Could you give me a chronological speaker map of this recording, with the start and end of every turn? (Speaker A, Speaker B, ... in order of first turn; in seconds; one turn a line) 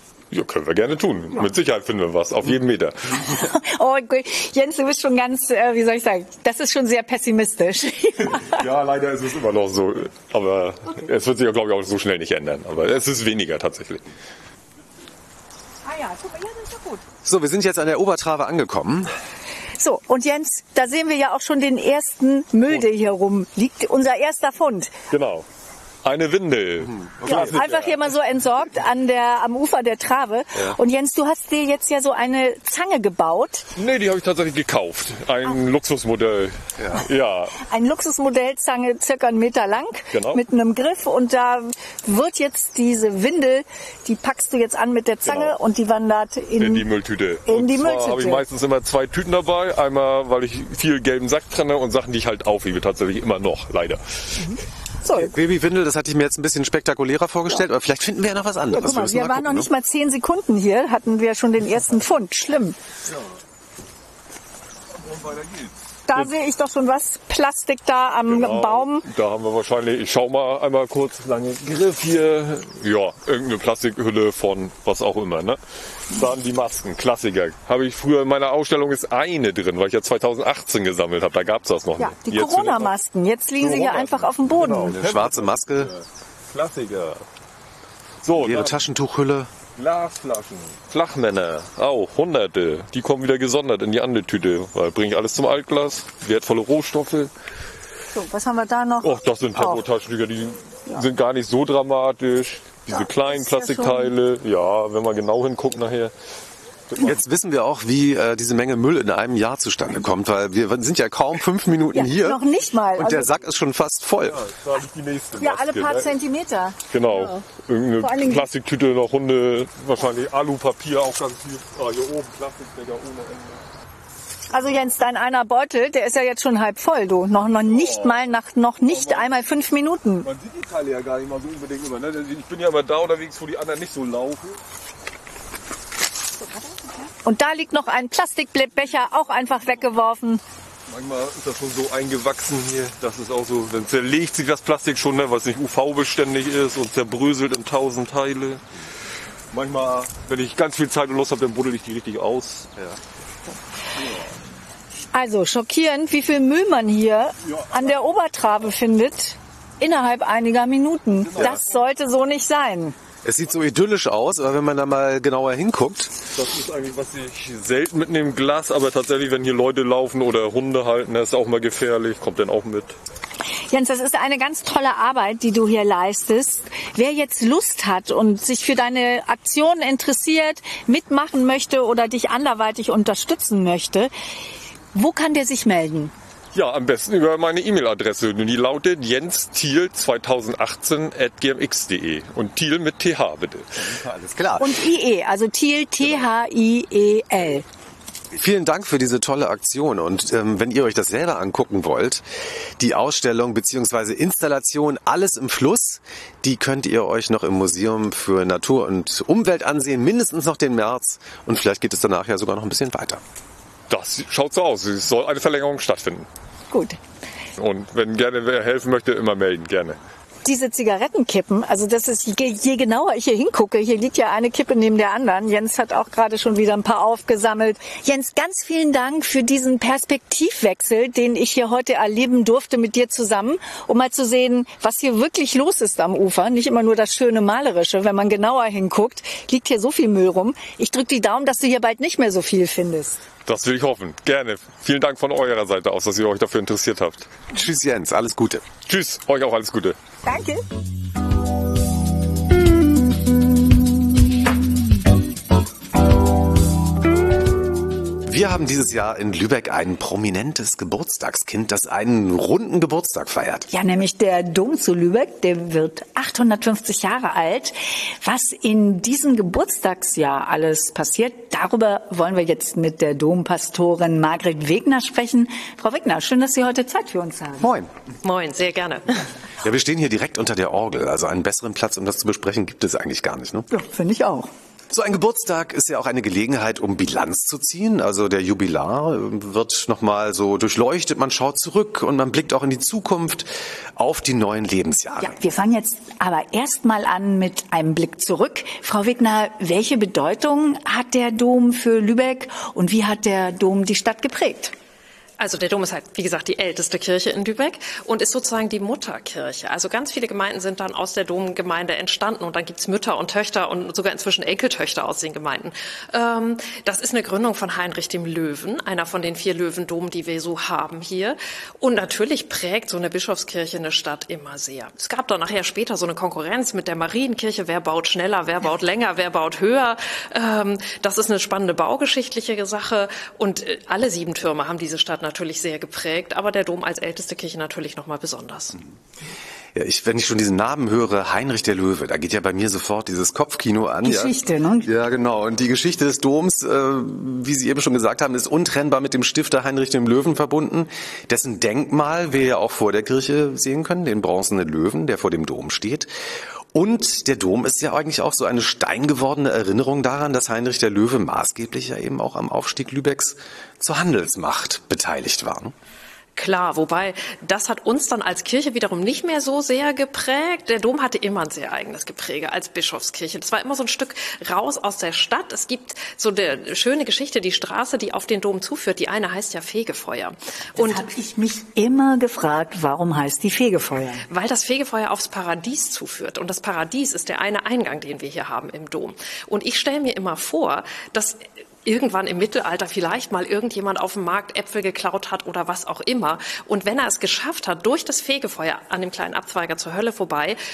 Speaker A: 0.3-3.3
Speaker B: 3.3-8.7
Speaker A: 8.4-14.1
Speaker B: 15.8-17.0
Speaker C: 17.2-19.1
Speaker B: 19.8-24.9
Speaker A: 25.1-25.5
Speaker A: 26.1-28.1
Speaker C: 27.2-27.5
Speaker B: 27.2-33.7
Speaker A: 33.8-37.6
Speaker B: 37.6-46.9
Speaker A: 40.1-40.4
Speaker A: 45.3-45.5
Speaker A: 46.6-54.5
Speaker B: 47.5-48.4
Speaker B: 54.4-55.3
Speaker C: 55.1-59.7
Speaker B: 58.7-62.8
Speaker A: 65.0-66.3
Speaker B: 66.1-69.1
Speaker A: 68.3-82.9
Speaker B: 82.0-85.0
Speaker A: 83.6-87.2
Speaker C: 84.9-85.9
Speaker A: 88.2-88.8
Speaker C: 88.4-89.5
Speaker A: 89.8-97.3
Speaker B: 98.1-99.8
Speaker A: 99.0-106.1
Speaker B: 102.9-104.1
Speaker C: 107.0-112.4
Speaker B: 111.9-113.3
Speaker C: 113.0-114.4
Speaker A: 114.3-116.1
Speaker B: 115.4-117.4
Speaker A: 116.9-123.7
Speaker B: 118.0-118.5
Speaker B: 124.5-130.3
Speaker A: 127.7-128.2
Speaker A: 128.8-129.3
Speaker A: 130.2-134.6
Speaker B: 136.7-140.4
Speaker A: 140.9-148.6
Speaker A: 149.5-152.9
Speaker B: 155.1-162.9
Speaker A: 161.3-161.7
Speaker C: 163.2-166.1
Speaker A: 166.3-172.9
Speaker B: 173.7-184.1
Speaker B: 184.9-186.1
Speaker A: 186.5-193.9
Speaker C: 193.8-194.7
Speaker B: 194.6-197.7
Speaker C: 198.3-202.2
Speaker C: 202.8-213.2
Speaker A: 213.9-216.3
Speaker B: 216.7-217.0
Speaker A: 217.6-220.0
Speaker B: 220.4-243.2
Speaker A: 243.5-247.3
Speaker C: 247.5-248.6
Speaker A: 248.9-250.0
Speaker B: 250.2-250.6
Speaker C: 258.3-263.7
Speaker B: 263.7-277.7
Speaker C: 277.6-277.9
Speaker D: 278.2-279.1
Speaker C: 279.6-283.7
Speaker B: 283.7-284.5
Speaker C: 284.9-295.3
Speaker B: 295.2-304.7
Speaker D: 305.4-338.8
Speaker C: 339.8-356.1
Speaker B: 344.0-344.9
Speaker C: 356.7-365.7
Speaker D: 366.4-381.1
Speaker B: 380.8-384.2
Speaker D: 384.3-400.6